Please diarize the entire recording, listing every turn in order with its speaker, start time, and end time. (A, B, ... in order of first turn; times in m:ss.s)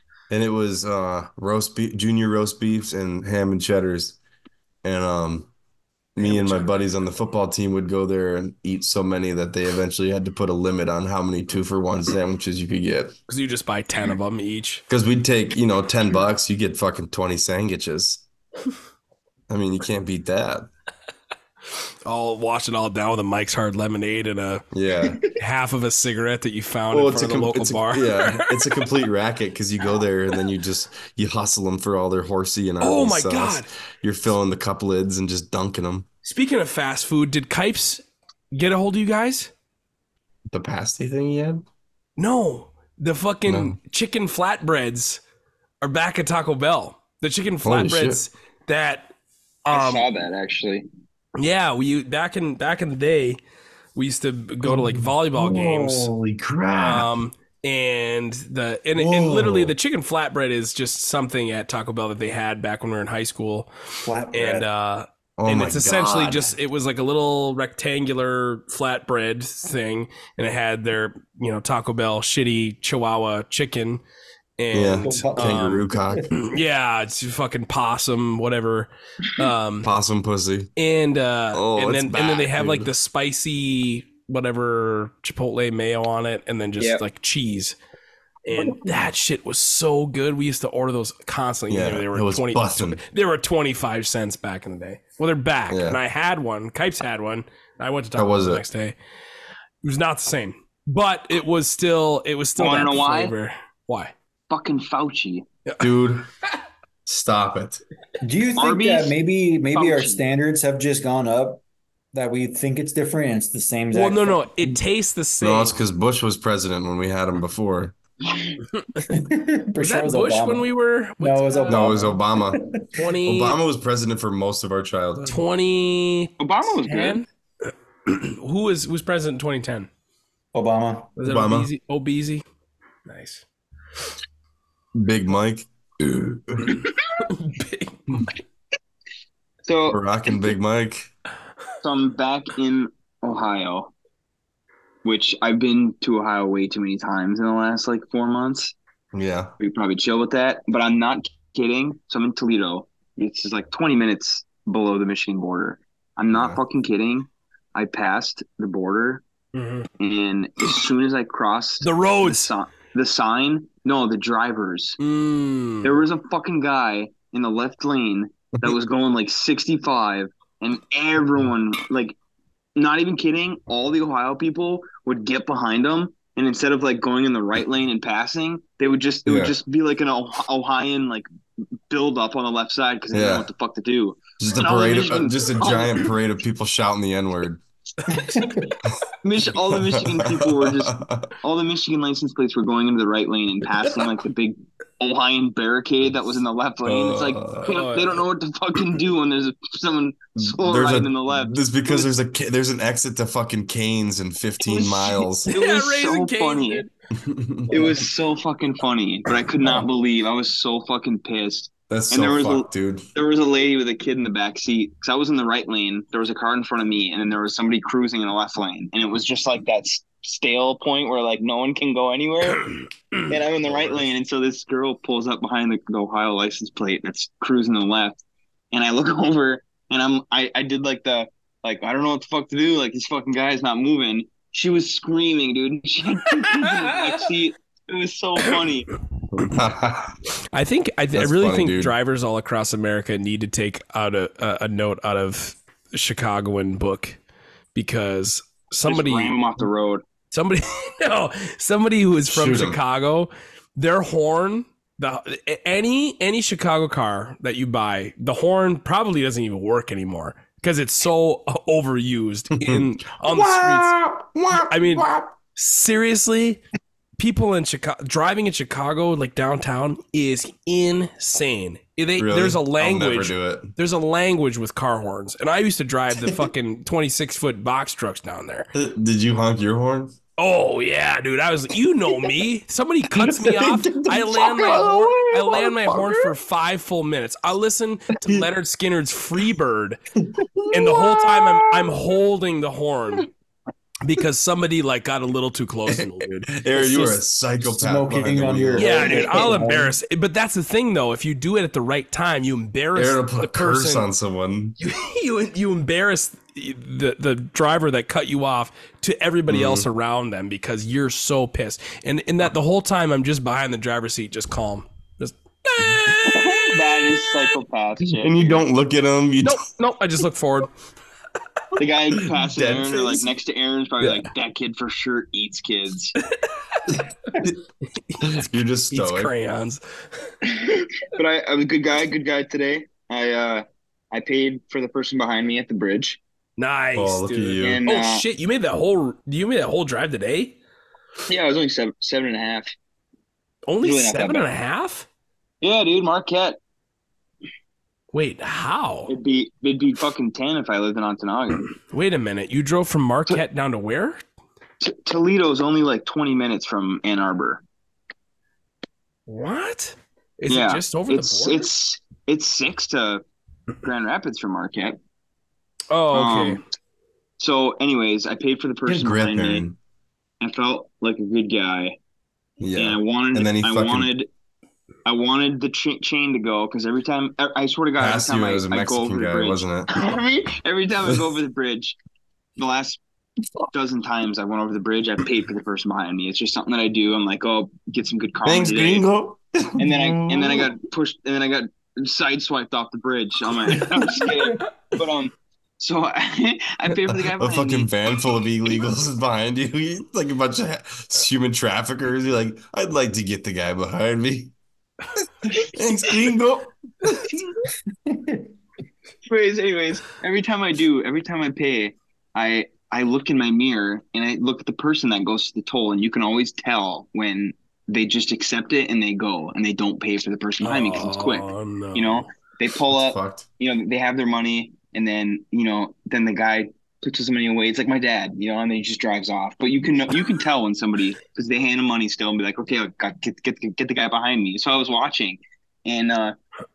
0:00.3-0:04.2 A
0:04.8-0:05.5 A
0:06.2-0:13.2 A
0:06.2-0:06.7 B
0:13.3-0:14.8 B
0:14.9-0:18.2 A
0:19.5-0:20.7 A
0:22.0-0:24.6 B
0:24.7-0:25.2 A
0:25.3-0:28.9 B
0:26.9-0:36.1 A
0:32.8-0:33.7 B
0:36.2-0:39.5 B
0:40.5-0:41.6 A
0:42.2-0:45.2 B
0:43.5-0:43.8 A
0:45.8-0:49.1 B
0:47.6-0:48.2 A
0:49.6-0:50.1 B
0:49.7-0:50.9 C
0:51.4-0:53.4 B
0:54.0-0:56.1 B
0:54.6-0:57.1 A
0:56.8-1:03.7 B
0:59.0-0:59.7 A
1:04.0-1:04.7 D
1:04.3-1:14.0 B
1:05.4-1:06.5 A
1:14.6-1:19.9 B
1:14.7-1:16.3 A
1:15.0-1:16.3 D
1:19.8-1:20.7 A
1:20.8-1:27.8 B
1:21.5-1:22.9 A
1:28.4-1:39.0 B
1:31.7-1:33.0 A
1:35.7-1:36.0 A
1:38.2-1:38.6 A
1:39.8-1:44.1 B
1:42.6-1:43.3 C
1:44.5-1:45.5 C
1:45.7-1:45.9 B
1:45.8-1:46.3 A
1:47.1-1:47.8 A
1:48.2-1:51.6 D
1:48.6-1:49.2 C
1:49.7-1:50.2 C
1:52.1-1:54.8 D
1:53.9-1:55.7 B
1:55.4-1:58.0 A
1:58.2-1:58.6 C
1:58.7-1:59.1 B
1:59.1-2:00.7 D
1:59.8-2:02.0 B
2:01.2-2:03.1 D
2:01.7-2:02.6 A
2:02.9-2:03.6 B
2:03.2-2:05.4 A
2:05.2-2:09.9 B
2:06.4-2:07.2 C
2:10.5-2:11.1 D
2:11.2-2:12.4 B
2:11.2-2:11.7 A
2:13.1-2:13.4 B
2:14.9-2:16.8 A
2:16.7-2:18.3 B
2:19.6-2:20.4 C
2:19.9-2:21.1 A
2:21.8-2:23.9 C
2:25.0-2:28.8 C
2:29.1-2:29.5 A
2:29.6-2:39.2 C
2:36.3-2:36.6 A
2:39.5-2:39.9 B
2:40.0-2:45.0 C
2:41.8-2:42.5 B
2:45.0-2:46.0 B
2:45.8-2:52.2 C
2:52.8-3:01.3 C
2:59.3-2:59.6 A
3:01.9-3:06.1 C
3:03.1-3:03.5 A
3:04.4-3:07.6 A
3:08.1-3:08.8 D
3:09.2-3:22.1 C
3:09.5-3:11.3 A
3:16.8-3:17.8 A
3:17.7-3:18.2 B
3:20.4-3:25.5 A
3:24.6-3:26.8 C
3:25.5-3:26.9 B
3:27.2-3:28.0 A
3:27.7-3:42.8 C
3:31.9-3:33.0 A
3:43.3-3:48.2 C
3:48.7-3:58.9 C
3:59.3-4:00.2 A
4:00.5-4:07.2 B
4:01.1-4:01.9 A
4:07.8-4:09.4 B
4:08.8-4:10.0 C
4:10.3-4:24.0 B
4:12.3-4:12.8 A
4:22.6-4:25.3 A
4:24.5-4:26.6 B
4:27.2-4:38.7 B
4:32.2-4:33.7 A
4:38.7-4:40.2 A
4:40.4-4:50.0 B
4:43.1-4:46.3 A
4:50.3-4:52.0 A
4:50.7-4:53.3 B
4:54.0-4:57.2 B
4:55.9-4:59.6 A
4:57.7-5:00.0 D
4:58.8-5:04.1 B
5:03.0-5:04.8 A
5:04.8-5:17.5 B
5:09.5-5:09.9 A
5:16.2-5:18.6 C
5:18.0-5:19.7 A
5:19.4-5:20.7 B
5:21.8-5:26.2 C
5:22.3-5:23.3 A
5:24.0-5:24.3 B
5:28.1-5:29.8 B
5:28.2-5:29.3 A
5:30.4-5:36.2 C
5:36.6-5:40.6 B
5:37.0-5:37.8 A
5:37.6-5:38.2 C
5:41.3-5:42.7 C
5:43.7-5:45.1 B
5:43.8-5:44.5 C
5:45.6-5:46.6 C
5:48.1-5:49.1 B
5:49.1-5:51.7 C
5:51.9-5:54.2 B
5:54.8-5:57.6 C
5:59.3-6:01.7 B
6:00.5-6:03.2 C
6:03.8-6:05.0 C
6:05.9-6:06.6 B
6:06.1-6:06.6 C
6:07.4-6:09.7 C
6:08.9-6:09.8 A
6:10.4-6:12.0 C
6:12.6-6:14.1 A
6:12.8-6:14.3 C
6:15.0-6:22.0 C
6:18.0-6:19.9 A
6:22.6-6:23.0 C
6:23.7-6:29.1 C
6:28.4-6:30.7 A
6:29.8-6:37.9 C
6:33.7-6:34.2 A
6:36.9-6:44.5 A
6:45.4-6:47.5 A
6:48.1-6:48.5 D
6:49.3-7:16.4 C
7:00.6-7:02.3 B
7:02.9-7:03.5 A